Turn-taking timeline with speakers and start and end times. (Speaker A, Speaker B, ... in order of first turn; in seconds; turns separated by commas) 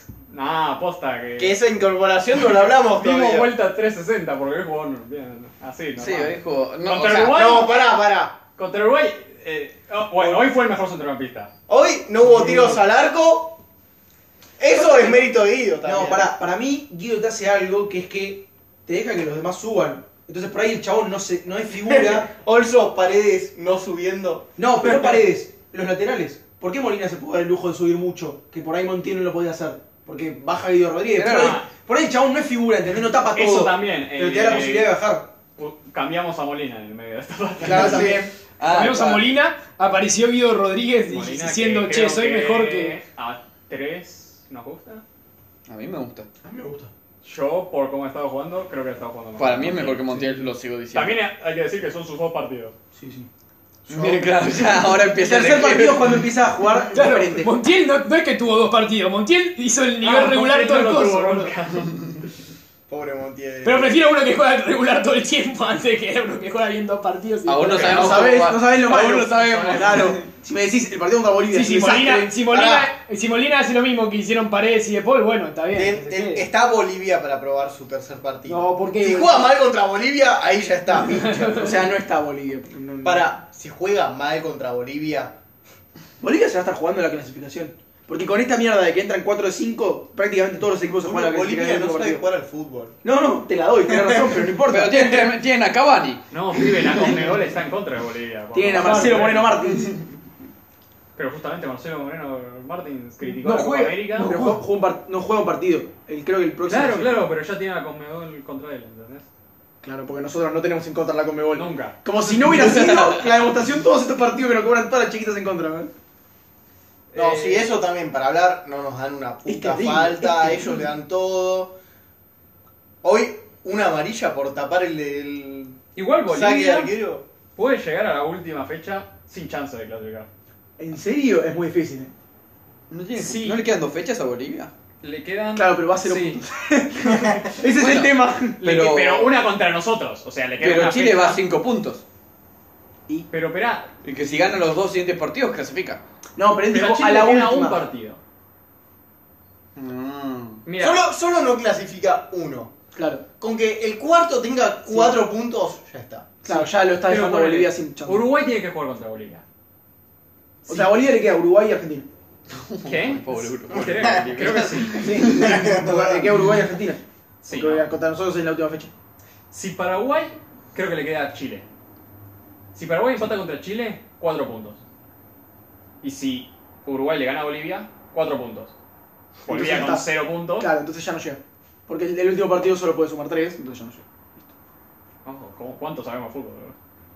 Speaker A: 0.3-1.6, Speaker B: 1.4-3.5, Speaker A: 2.7-7.7, Speaker C: 6.0-7.4, Speaker B: 7.2-8.4, Speaker A: 8.6-11.5, Speaker B: 11.7-13.6, Speaker D: 12.2-12.8, Speaker B: 14.6-16.3, Speaker D: 14.7-22.3, Speaker B: 21.8-24.9, Speaker D: 24.6-35.3, Speaker A: 24.8-25.2, Speaker C: 31.1-31.6, Speaker A: 31.3-31.7, Speaker A: 33.3-34.9, Speaker A: 35.6-38.2, Speaker B: 37.6-38.3, Speaker D: 37.6-38.3, Speaker C: 38.6-39.3, Speaker E: 38.6-43.0, Speaker A: 41.1-45.0, Speaker C: 45.7-46.3, Speaker D: 46.4-46.9, Speaker A: 47.2-50.0, Speaker C: 49.4-51.2, Speaker A: 50.9-52.8, Speaker D: 52.9-53.3, Speaker B: 53.9-54.4, Speaker C: 53.9-56.3, Speaker D: 55.1-57.5, Speaker E: 56.9-61.5, Speaker A: 60.0-62.0, Speaker B: 62.9-64.0, Speaker E: 63.6-68.3, Speaker C: 67.4-70.3, Speaker A: 67.6-68.3, Speaker D: 67.9-72.3, Speaker A: 69.4-70.1, Speaker E: 71.5-76.5, Speaker B: 72.5-72.9, Speaker B: 75.7-81.8, Speaker E: 78.5-79.5, Speaker E: 81.0-81.8, Speaker D: 81.5-83.3, Speaker B: 83.0-85.3, Speaker D: 86.2-92.2, Speaker B: 91.0-93.0, Speaker D: 93.0-95.4, Speaker B: 93.9-94.5, Speaker C: 94.6-97.1, Speaker A: 96.3-99.6, Speaker D: 97.0-97.3, Speaker D: 98.5-99.9, Speaker E: 98.8-99.2, Speaker A: 101.2-104.3, Speaker D: 103.3-107.3, Speaker E: 104.2-104.6, Speaker A: 106.7-109.3, Speaker D: 109.8-115.9, Speaker A: 111.5-112.7, Speaker C: 112.4-113.4, Speaker A: 117.1-117.7, Speaker B: 117.2-121.8, Speaker D: 119.5-120.8, Speaker B: 123.0-125.8, Speaker A: 126.0-126.9, Speaker B: 126.3-127.2, Speaker A: 127.6-130.3, Speaker D: 130.8-132.1, Speaker C: 132.9-134.7, Speaker A: 133.2-133.6, Speaker A: 135.0-136.4, Speaker D: 135.6-138.6, Speaker C: 137.7-139.3, Speaker A: 138.6-141.4, Speaker C: 140.6-142.0, Speaker A: 143.3-143.9, Speaker C: 144.0-146.0, Speaker D: 146.4-147.8, Speaker A: 146.7-148.2, Speaker C: 149.8-150.6, Speaker A: 150.7-151.0, Speaker B: 150.8-152.7, Speaker D: 152.9-153.2, Speaker B: 153.4-156.3, Speaker D: 154.9-155.2, Speaker D: 156.4-158.3, Speaker A: 156.5-159.4, Speaker D: 160.7-162.1, Speaker C: 162.5-165.7, Speaker A: 162.8-165.2, Speaker B: 163.7-164.2, Speaker D: 165.0-168.9, Speaker B: 165.3-166.3, Speaker A: 167.4-167.9, Speaker A: 169.5-171.7, Speaker A: 172.7-174.8, Speaker A: 176.0-178.7, Speaker A: 179.4-180.7, Speaker D: 179.5-184.4, Speaker A: 185.2-186.8